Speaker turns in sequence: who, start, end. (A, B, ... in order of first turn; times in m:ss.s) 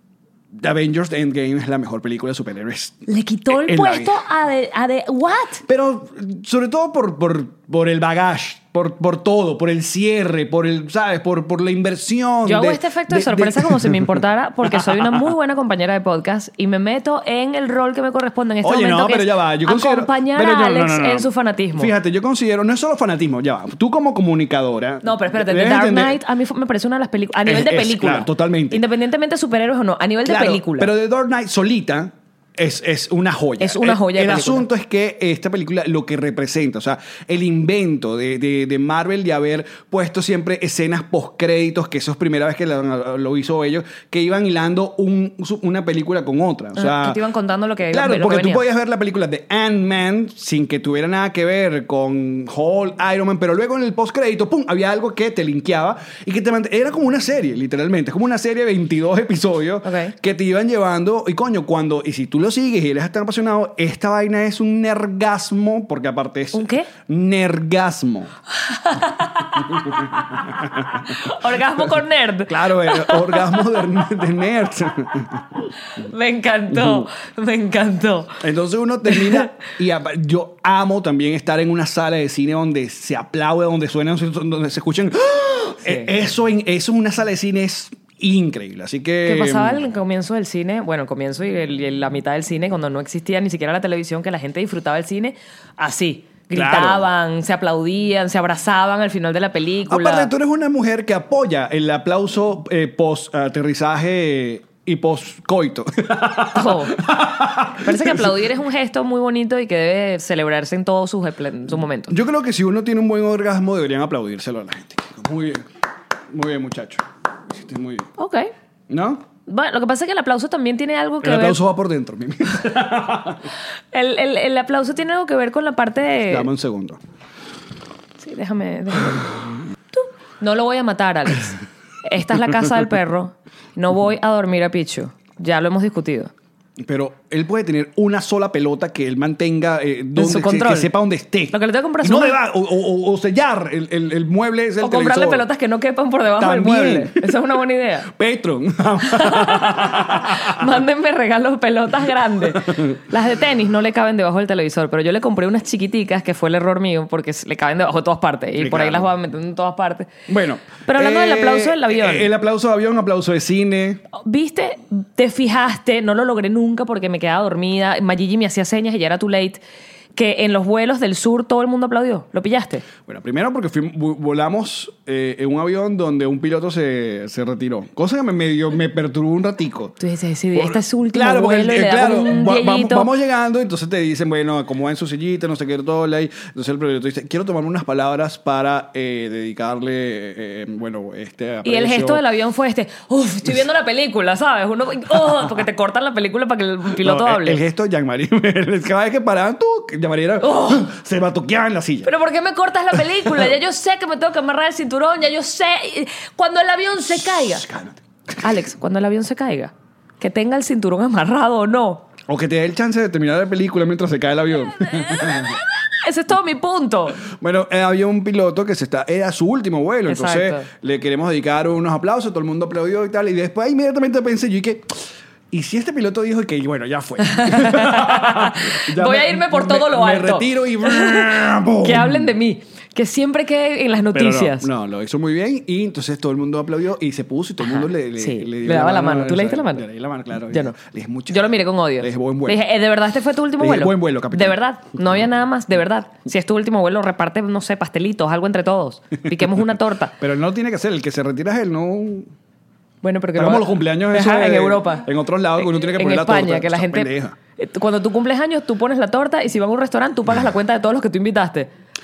0:00.5-0:04.2 A
0:03.1-0:05.6 B
0:05.6-0:15.3 A
0:12.4-0:21.9 B
0:18.6-0:26.2 A
0:25.0-0:30.9 B
0:27.4-0:28.8 A
0:30.2-0:47.2 A
0:33.6-0:34.7 B
0:46.8-0:48.6 B
0:47.9-1:08.3 A
0:59.8-1:00.1 B
1:06.5-1:06.9 B
1:08.6-1:13.8 B
1:09.6-1:11.3 A
1:12.4-1:15.7 A
1:15.9-1:18.4 B
1:16.7-1:17.0 A
1:18.4-1:29.8 A
1:19.1-1:19.4 B
1:25.8-1:26.1 B
1:29.2-1:40.3 B
1:36.5-1:37.1 A
1:39.9-1:48.3 A
1:46.5-1:47.1 B
1:47.7-1:52.1 B
1:52.1-1:55.7 A
1:56.3-1:58.1 A
1:58.2-1:58.5 B
1:58.9-1:59.2 A
1:59.5-2:01.6 B
2:01.2-2:03.5 A
2:03.9-2:06.5 B
2:06.3-2:07.0 A
2:08.2-2:09.3 B
2:09.9-2:16.3 B
2:16.8-2:25.5 A
2:20.2-2:20.9 B
2:21.5-2:22.4 B
2:24.8-2:28.1 B
2:26.4-2:27.3 A
2:28.0-2:30.7 A
2:29.1-2:40.1 B
2:32.4-2:33.0 A
2:38.6-2:39.1 A
2:40.3-2:44.0 A
2:40.8-2:42.3 B
2:44.1-2:49.6 B
2:50.1-2:52.8 B
2:53.0-3:00.0 A
3:00.0-3:03.1 B
3:00.5-3:12.2 A
3:11.6-3:17.6 B
3:16.9-3:22.1 A
3:20.4-3:20.9 B
3:22.0-3:27.6 B
3:22.9-3:23.5 A
3:27.1-3:28.0 A
3:28.4-3:32.0 B
3:32.3-3:35.6 A
3:34.8-3:37.2 B
3:37.2-3:52.3 A
3:40.1-3:40.7 B
3:47.2-3:54.7 B
3:54.1-4:02.6 A
3:57.6-3:59.8 B
4:01.3-4:10.1 B
4:03.6-4:05.2 A
4:09.4-4:12.3 A
4:13.0-4:15.0 B
4:13.3-4:17.4 A
4:15.6-4:21.7 B